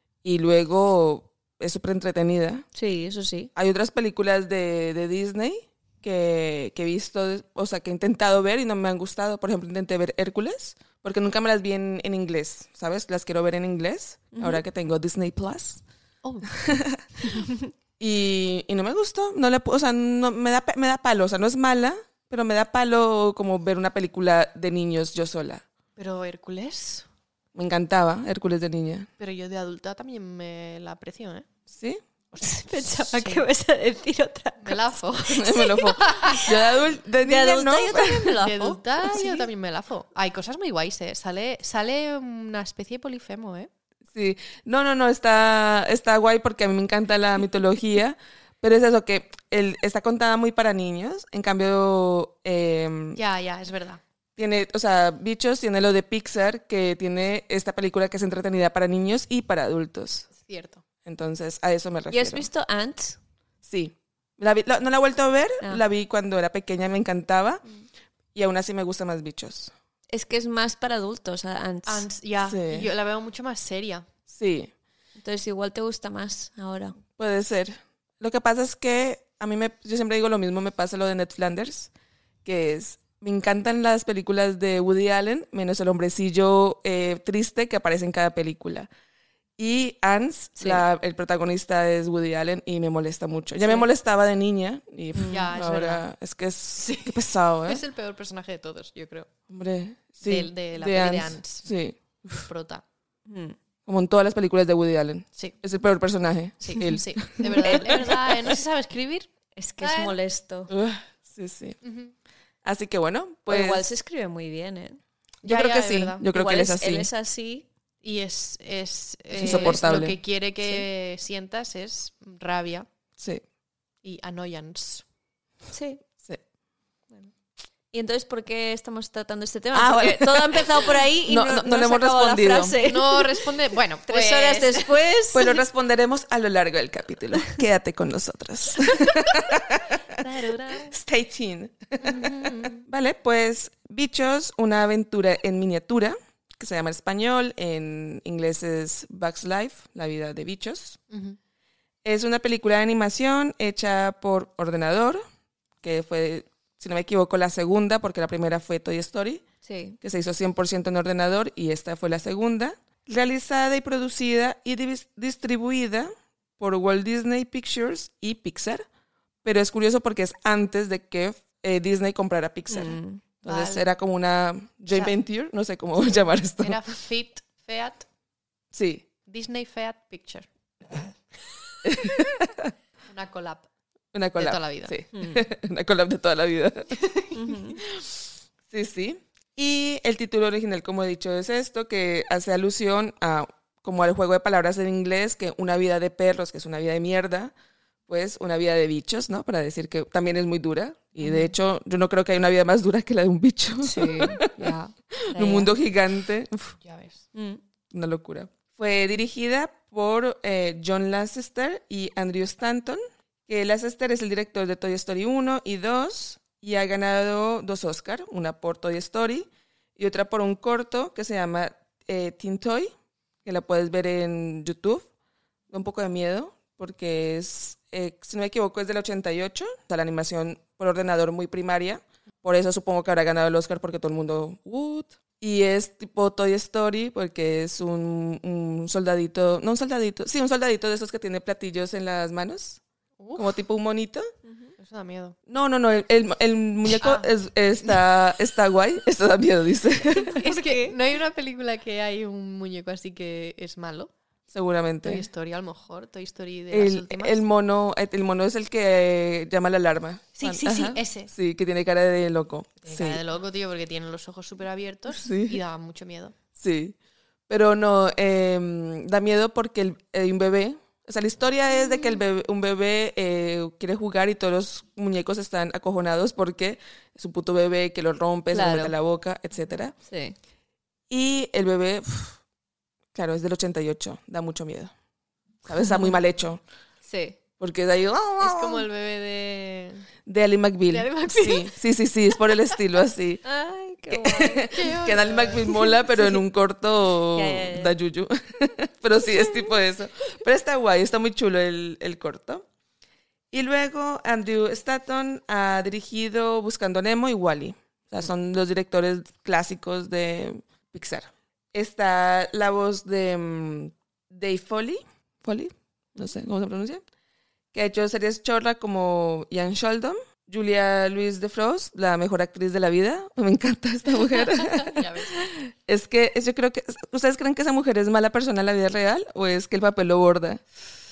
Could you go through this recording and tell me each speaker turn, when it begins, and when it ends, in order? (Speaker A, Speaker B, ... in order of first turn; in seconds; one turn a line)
Speaker A: 0.2-2.6
Speaker B: 2.7-3.5
Speaker A: 3.5-15.8
Speaker B: 14.3-14.6
Speaker C: 16.2-16.6
Speaker A: 16.6-17.3
Speaker A: 18.0-25.6
Speaker C: 26.0-27.1
Speaker A: 27.5-29.1
Speaker C: 29.2-31.5
Speaker A: 31.7-32.0
Speaker C: 32.3-33.5
Speaker B: 32.4-35.0
Speaker C: 34.6-36.6
Speaker A: 35.3-38.3
Speaker B: 36.2-38.8
Speaker C: 38.3-43.7
Speaker A: 44.1-53.2
Speaker C: 53.2-54.0
Speaker A: 54.4-60.3
Speaker C: 60.4-60.8
Speaker A: 61.0-62.5
Speaker B: 62.1-63.2
Speaker A: 63.6-67.6
Speaker A: 68.3-69.7
Speaker B: 70.1-72.1
Speaker C: 71.9-74.1
Speaker A: 72.4-72.9
Speaker A: 74.3-74.7
Speaker B: 75.2-77.0
Speaker A: 77.2-81.9
Speaker A: 82.5-88.9
Speaker A: 89.6-97.8
Speaker B: 90.6-90.8
Speaker B: 95.2-95.5
Speaker C: 95.3-96.0
Speaker C: 96.8-99.3
Speaker A: 99.5-102.4
Speaker C: 100.2-101.7
Speaker C: 102.3-102.8
Speaker B: 103.3-103.6
Speaker A: 103.9-108.1
Speaker C: 106.6-110.2
Speaker B: 107.5-108.2
Speaker B: 109.6-110.7
Speaker A: 110.7-111.8
Speaker C: 111.8-112.1
Speaker A: 112.6-113.9
Speaker B: 113.5-115.0
Speaker A: 115.4-117.1
Speaker C: 115.4-116.3
Speaker B: 116.3-117.7
Speaker C: 118.0-122.9
Speaker B: 119.4-119.9
Speaker A: 119.4-120.8
Speaker C: 124.0-125.0
Speaker B: 125.7-126.0
Speaker B: 127.9-133.5
Speaker A: 129.7-132.8
Speaker C: 132.8-134.9
Speaker B: 134.1-135.6
Speaker A: 135.3-139.8
Speaker C: 140.2-140.9
Speaker A: 140.9-151.0
Speaker C: 142.0-142.8
Speaker C: 151.1-151.4
Speaker A: 152.0-155.2
Speaker A: 155.8-159.4
Speaker B: 159.6-160.0
Speaker A: 160.0-168.8
Speaker A: 169.4-176.8
Speaker B: 172.7-173.2
Speaker C: 173.5-174.0
Speaker C: 176.6-178.1
Speaker A: 178.7-179.1
Speaker C: 179.3-181.0
Speaker A: 181.8-182.7
Speaker C: 183.1-183.7
Speaker A: 184.1-187.0
Speaker C: 184.4-184.9
Speaker B: 185.2-185.5
Speaker C: 187.0-187.4
Speaker B: 187.3-187.8
Speaker A: 188.7-197.5
Speaker A: 198.1-204.5
Speaker B: 201.2-201.5
Speaker B: 203.8-205.7
Speaker A: 205.2-206.8
Speaker C: 206.8-207.2
Speaker B: 207.3-207.6
Speaker A: 207.9-222.9
Speaker A: 223.4-225.1
Speaker A: 225.7-242.8
Speaker C: 243.2-243.5
Speaker A: 243.4-244.3
Speaker B: 244.4-244.7
Speaker C: 244.8-245.4
Speaker A: 245.5-250.4
Speaker C: 247.0-247.3
Speaker B: 250.1-251.0
Speaker C: 250.4-254.1
Speaker A: 254.5-255.3
Speaker C: 255.0-257.4
Speaker A: 256.7-263.2
Speaker C: 260.4-261.3
Speaker C: 262.8-266.3
Speaker A: 265.1-265.6
Speaker A: 266.6-267.0
Speaker A: 267.5-279.9
Speaker B: 278.5-279.0
Speaker B: 280.1-280.4
Speaker A: 281.1-282.4
Speaker A: 283.1-284.9
Speaker A: 285.7-286.6
Speaker B: 285.8-286.2
Speaker B: 287.1-287.4
Speaker A: 287.6-288.9
Speaker C: 288.4-290.1
Speaker A: 290.3-293.4
Speaker C: 290.9-291.7
Speaker B: 293.4-294.7
Speaker A: 294.1-302.6
Speaker C: 294.7-295.9
Speaker B: 297.3-298.0
Speaker A: 303.5-317.0
Speaker A: 317.7-325.0
Speaker C: 324.6-325.4
Speaker A: 325.9-330.6